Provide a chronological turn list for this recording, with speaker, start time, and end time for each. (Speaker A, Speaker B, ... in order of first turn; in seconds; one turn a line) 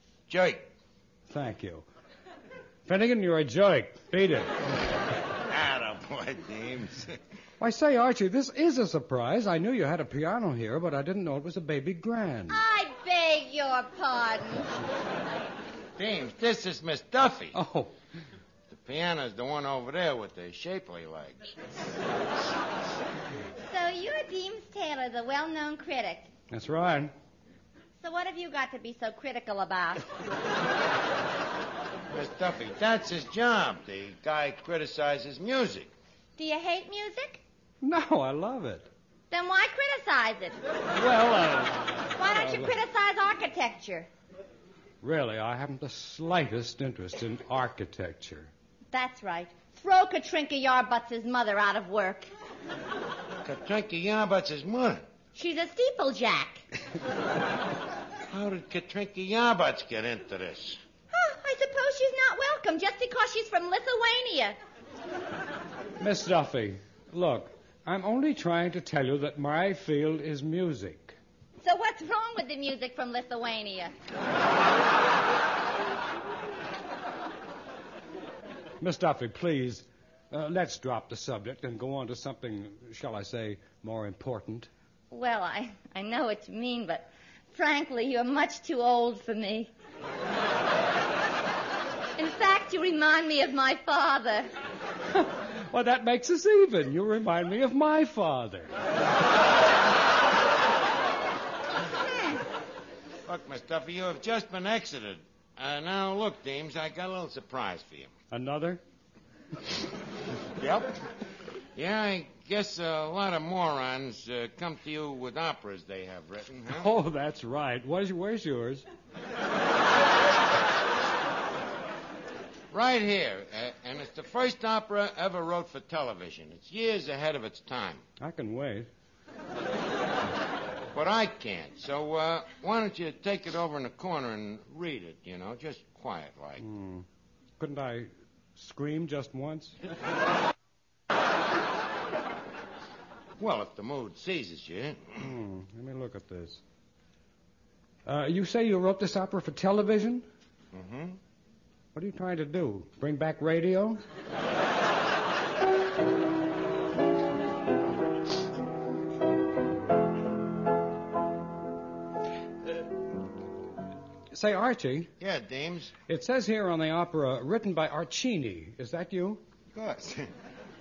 Speaker A: 0.3-0.7
Speaker B: 1.3-1.8
Speaker B: 2.9-4.5
Speaker A: 5.4-7.2
Speaker B: 7.6-12.6
Speaker C: 12.5-14.7
Speaker A: 16.0-17.6
Speaker B: 17.5-17.9
Speaker A: 18.7-21.4
Speaker C: 23.6-26.3
Speaker B: 26.5-27.1
Speaker C: 28.0-30.0
Speaker A: 32.1-35.9
Speaker C: 36.4-37.4
Speaker B: 37.8-38.9
Speaker C: 39.3-40.6
Speaker B: 40.9-42.7
Speaker C: 42.1-44.1
Speaker B: 45.0-48.5
Speaker C: 48.9-52.3
Speaker A: 53.4-55.0
Speaker C: 55.3-56.6
Speaker A: 58.3-60.8
Speaker C: 61.1-64.6
Speaker B: 66.0-71.2
Speaker C: 71.6-73.9
Speaker B: 78.8-84.7
Speaker C: 85.1-89.7
Speaker C: 92.2-94.5
Speaker B: 95.2-98.7
Speaker A: 103.2-108.1
Speaker B: 108.3-108.8
Speaker A: 110.5-111.0
Speaker A: 111.8-116.9
Speaker B: 116.7-118.8
Speaker A: 122.7-128.0
Speaker B: 128.2-128.9
Speaker A: 130.9-136.6
Speaker B: 136.6-137.1
Speaker B: 137.6-139.8
Speaker A: 143.4-145.1
Speaker B: 145.2-146.6
Speaker B: 148.1-150.2
Speaker A: 150.7-151.2
Speaker B: 151.9-154.0
Speaker B: 164.3-165.1
Speaker A: 165.2-165.9
Speaker B: 166.1-169.4
Speaker A: 169.7-170.3